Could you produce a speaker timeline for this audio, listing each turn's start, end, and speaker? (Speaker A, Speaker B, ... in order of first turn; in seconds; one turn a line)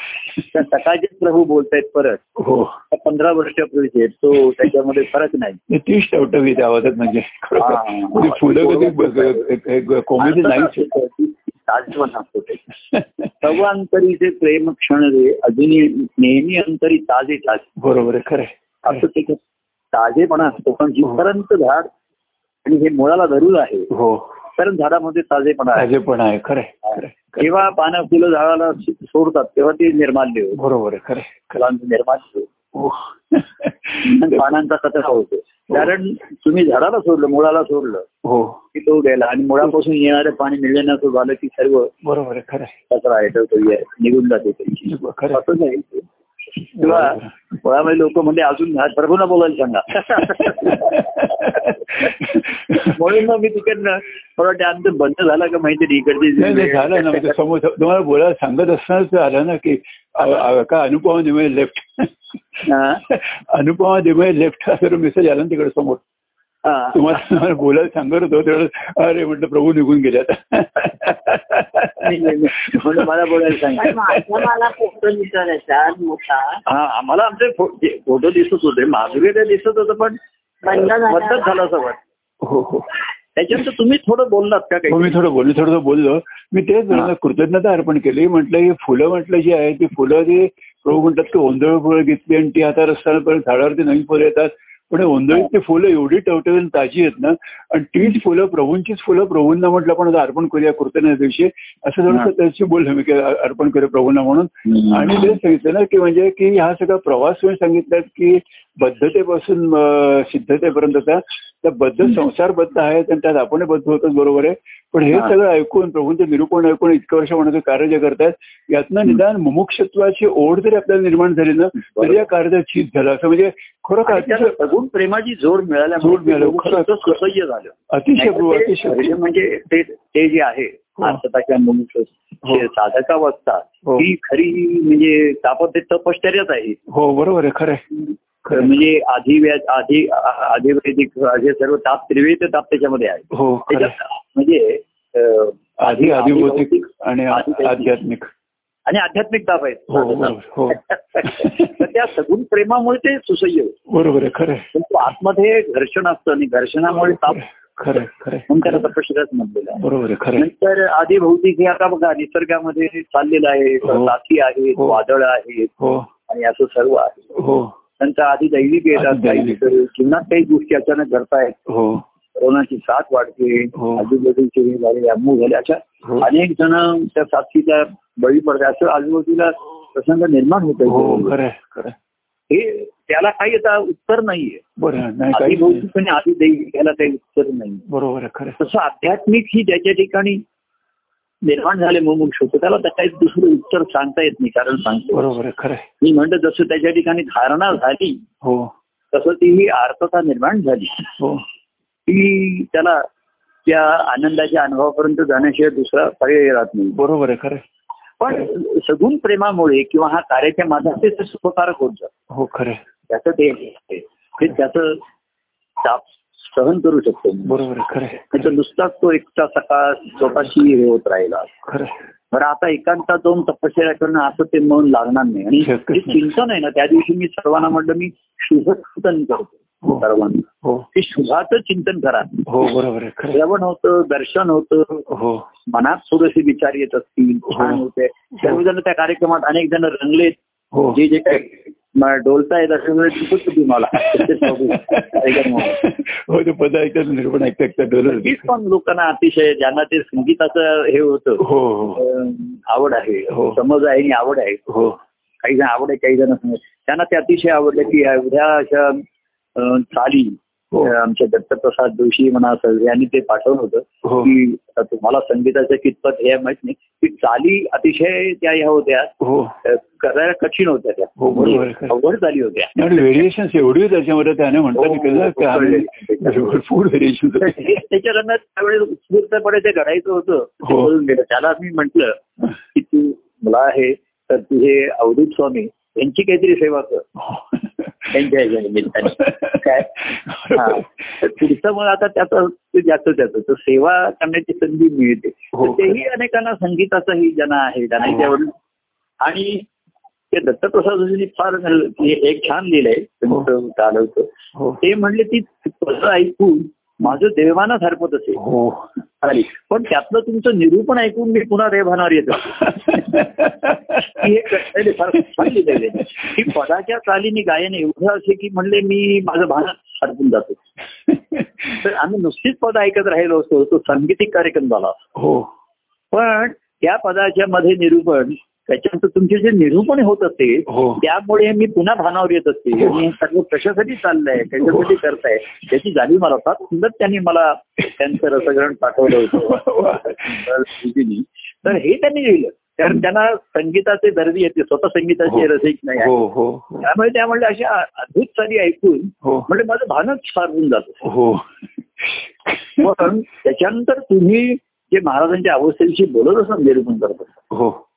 Speaker A: 0.5-2.2
Speaker B: 2.4-2.8
Speaker A: 2.9-5.6
Speaker B: 5.7-10.9
Speaker A: 7.6-9.4
Speaker A: 10.2-12.7
Speaker B: 12.9-13.3
Speaker A: 13.4-17.7
Speaker B: 17.8-19.0
Speaker A: 18.8-19.4
Speaker A: 19.9-21.9
Speaker A: 22.6-23.9
Speaker B: 23.9-24.3
Speaker A: 24.6-25.9
Speaker B: 25.8-27.6
Speaker A: 26.9-30.6
Speaker B: 30.6-31.6
Speaker A: 31.6-32.5
Speaker B: 32.7-34.4
Speaker A: 34.0-38.1
Speaker B: 38.2-38.6
Speaker A: 38.7-41.9
Speaker B: 42.0-42.8
Speaker A: 42.9-46.1
Speaker B: 44.9-45.4
Speaker A: 46.8-52.1
Speaker B: 46.8-47.3
Speaker B: 50.2-53.0
Speaker A: 52.7-57.4
Speaker B: 56.4-62.1
Speaker A: 62.6-63.0
Speaker B: 63.1-66.0
Speaker A: 66.6-67.2
Speaker B: 66.9-74.5
Speaker A: 72.0-74.0
Speaker C: 73.8-76.6
Speaker A: 76.7-82.0
Speaker C: 80.7-81.6
Speaker B: 82.4-82.9
Speaker A: 83.4-85.2
Speaker B: 84.9-124.5
Speaker A: 104.7-105.3
Speaker A: 121.8-122.2
Speaker A: 124.0-136.8
Speaker B: 126.0-127.2
Speaker B: 127.9-129.2
Speaker B: 136.9-137.8
Speaker B: 138.4-138.8
Speaker A: 138.5-147.9
Speaker B: 143.3-143.9
Speaker B: 145.8-148.3
Speaker A: 148.9-153.8
Speaker B: 149.9-151.9
Speaker B: 153.9-154.7
Speaker A: 154.7-157.4
Speaker B: 156.9-158.9
Speaker A: 158.5-159.8
Speaker B: 159.8-160.5
Speaker A: 160.4-165.7
Speaker B: 163.8-164.1
Speaker B: 165.8-166.1
Speaker A: 166.3-167.2
Speaker B: 167.3-167.7
Speaker A: 168.0-171.6
Speaker B: 168.9-169.7
Speaker B: 171.7-172.0
Speaker A: 172.4-181.3
Speaker B: 173.8-174.1
Speaker B: 180.9-182.0
Speaker A: 182.5-184.6
Speaker B: 184.8-185.8
Speaker A: 185.3-187.8
Speaker B: 187.9-188.6
Speaker A: 188.6-190.4
Speaker A: 191.4-195.3
Speaker B: 195.1-195.8
Speaker A: 196.0-198.2
Speaker B: 198.4-198.7
Speaker A: 199.1-201.1
Speaker B: 201.2-201.4
Speaker A: 202.1-203.1
Speaker A: 203.7-207.0
Speaker B: 206.9-207.6
Speaker A: 208.2-212.1
Speaker B: 212.3-212.8
Speaker A: 213.1-215.0
Speaker A: 215.8-217.6
Speaker B: 217.5-218.5
Speaker A: 218.3-221.5
Speaker B: 221.7-221.9
Speaker A: 222.3-232.5
Speaker B: 225.6-226.3
Speaker B: 232.5-233.4
Speaker A: 233.3-235.1
Speaker B: 235.1-235.4
Speaker A: 235.7-240.4
Speaker B: 237.5-237.8
Speaker B: 240.7-241.0
Speaker A: 240.9-245.8
Speaker B: 243.9-248.5
Speaker A: 248.1-254.7
Speaker B: 251.4-252.0
Speaker B: 253.3-253.6
Speaker B: 254.7-255.0
Speaker A: 255.4-259.0
Speaker A: 259.6-269.1
Speaker B: 264.0-264.3
Speaker B: 269.2-269.6
Speaker A: 269.6-272.8
Speaker B: 271.2-271.9
Speaker B: 272.8-277.8
Speaker A: 274.8-276.6
Speaker A: 277.4-287.1
Speaker B: 280.6-280.9
Speaker B: 287.2-288.1
Speaker A: 288.1-289.9
Speaker B: 289.0-291.3
Speaker A: 290.5-298.5
Speaker B: 295.5-296.0
Speaker A: 299.2-299.7
Speaker A: 300.3-308.4
Speaker B: 308.4-308.9
Speaker A: 309.2-313.3
Speaker B: 312.5-314.3
Speaker A: 313.9-320.6
Speaker B: 315.4-316.5
Speaker B: 321.1-321.6
Speaker A: 321.7-325.0
Speaker B: 325.2-325.5
Speaker A: 326.1-346.1
Speaker B: 330.7-331.0
Speaker B: 332.8-333.1
Speaker B: 334.6-335.0
Speaker B: 339.1-340.5
Speaker B: 345.3-346.9
Speaker A: 346.8-351.0
Speaker B: 351.0-351.5
Speaker B: 352.0-352.9
Speaker A: 352.8-357.4
Speaker B: 357.5-357.8